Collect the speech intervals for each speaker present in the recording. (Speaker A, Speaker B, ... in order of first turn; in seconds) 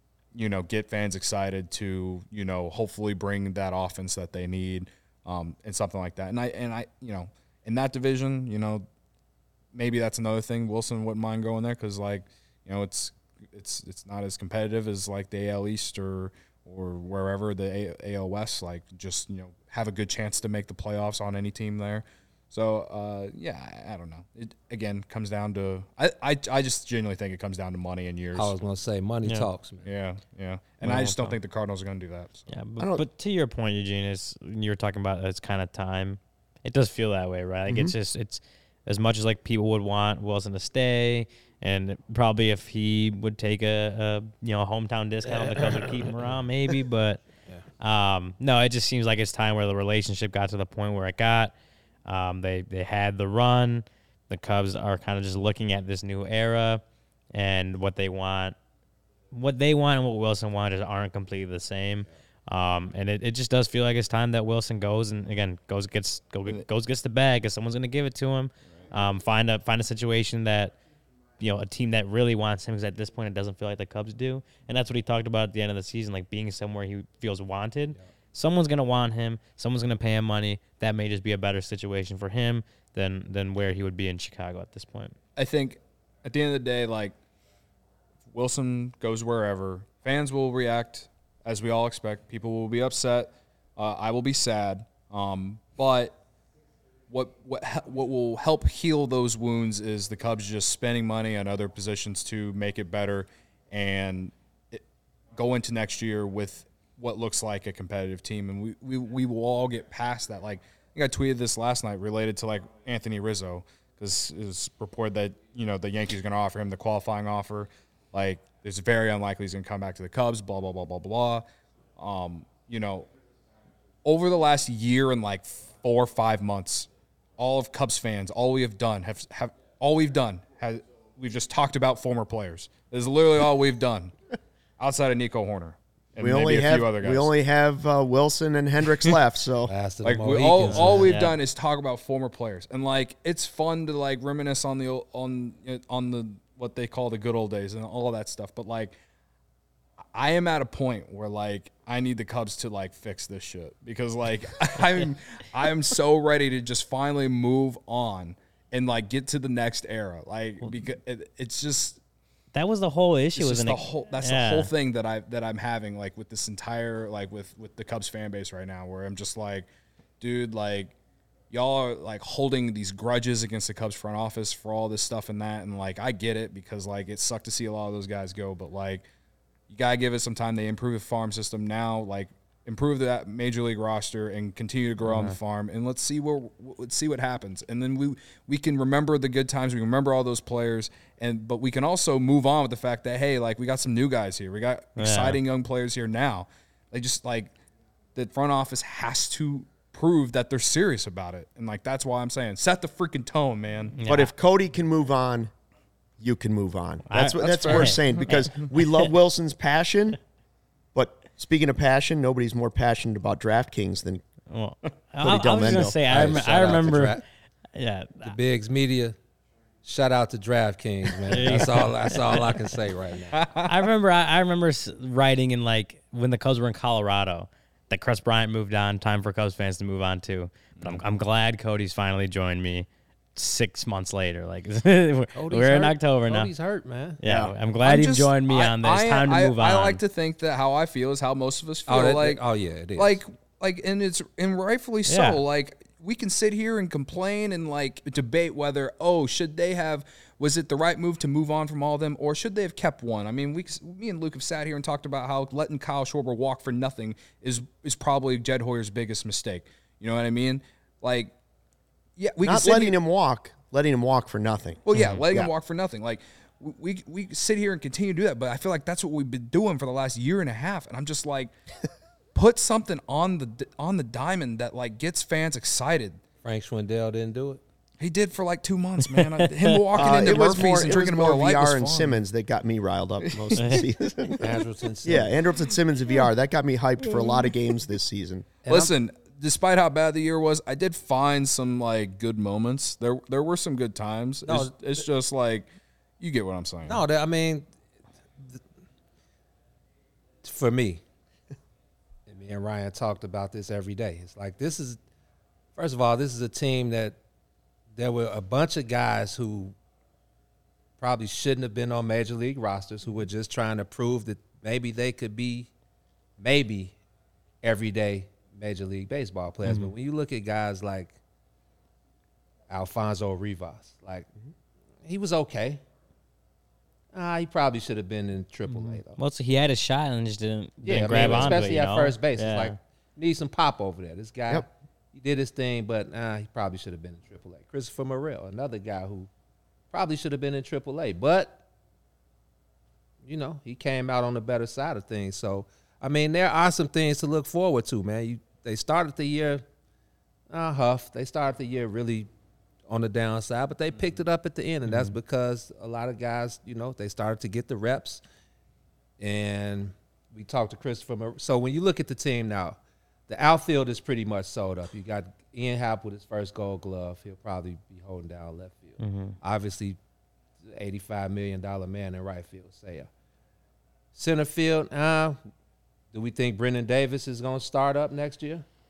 Speaker A: 0.3-8.8, 9.7-28.5, 29.8-32.5, 85.3-87.1, 88.3-96.2, 97.1-104.8, 105.3-121.4, 122.0-123.1, 124.0-134.1, 134.8-137.3, 140.0-148.9, 150.1-162.0, 163.3-169.7, 170.2-170.9, 171.5-179.1, 179.7-197.5, 198.1-203.9, 207.4-208.2, 223.3-223.7, 237.8-242.4, 242.9-261.3, 262.2-263.0, 264.9-271.5, 272.3-276.2, 278.0-282.2, 283.2-283.6, 287.0-287.5, 288.7-295.7, 296.2-297.0
Speaker B: 28.3-29.9, 45.4-45.8, 139.7-141.1, 216.1-217.2, 218.2-219.2, 219.8-223.4, 235.3-237.2, 241.9-243.2, 276.4-277.6, 284.4-285.3, 288.6-288.9, 294.4-294.7, 296.9-297.7, 300.4-301.0, 302.3-305.0, 305.8-307.2, 307.9-309.7, 311.0-315.7, 316.4-316.9, 317.6-321.1, 322.7-324.3, 325.0-325.8, 327.1-329.2, 330.8-339.3, 339.9-341.6, 343.2-349.6, 350.5-352.3, 352.9-358.2, 359.2-370.0, 370.6-373.1, 374.1-375.4, 376.1-378.6
Speaker C: 30.8-31.4, 32.5-47.2, 47.8-51.5, 52.0-56.8, 57.3-58.6, 59.3-70.8, 71.4-85.2, 140.7-141.3, 162.5-164.7, 185.0-185.4, 194.9-195.4, 203.9-204.3, 207.1-208.8, 214.5-217.2, 217.7-218.3, 221.3-222.6, 223.6-236.5, 237.2-240.0, 245.1-245.4, 264.9-265.2, 279.1-279.8, 283.5-283.9, 319.6-319.9, 329.1-332.7, 354.9-355.1, 369.0-369.4
Speaker D: 32.8-33.0, 37.7-37.9, 136.2-139.7, 204.1-205.5, 206.2-210.2, 210.9-214.2, 215.2-216.3, 237.2-237.5, 262.4-265.5, 279.9-284.5, 285.0-288.5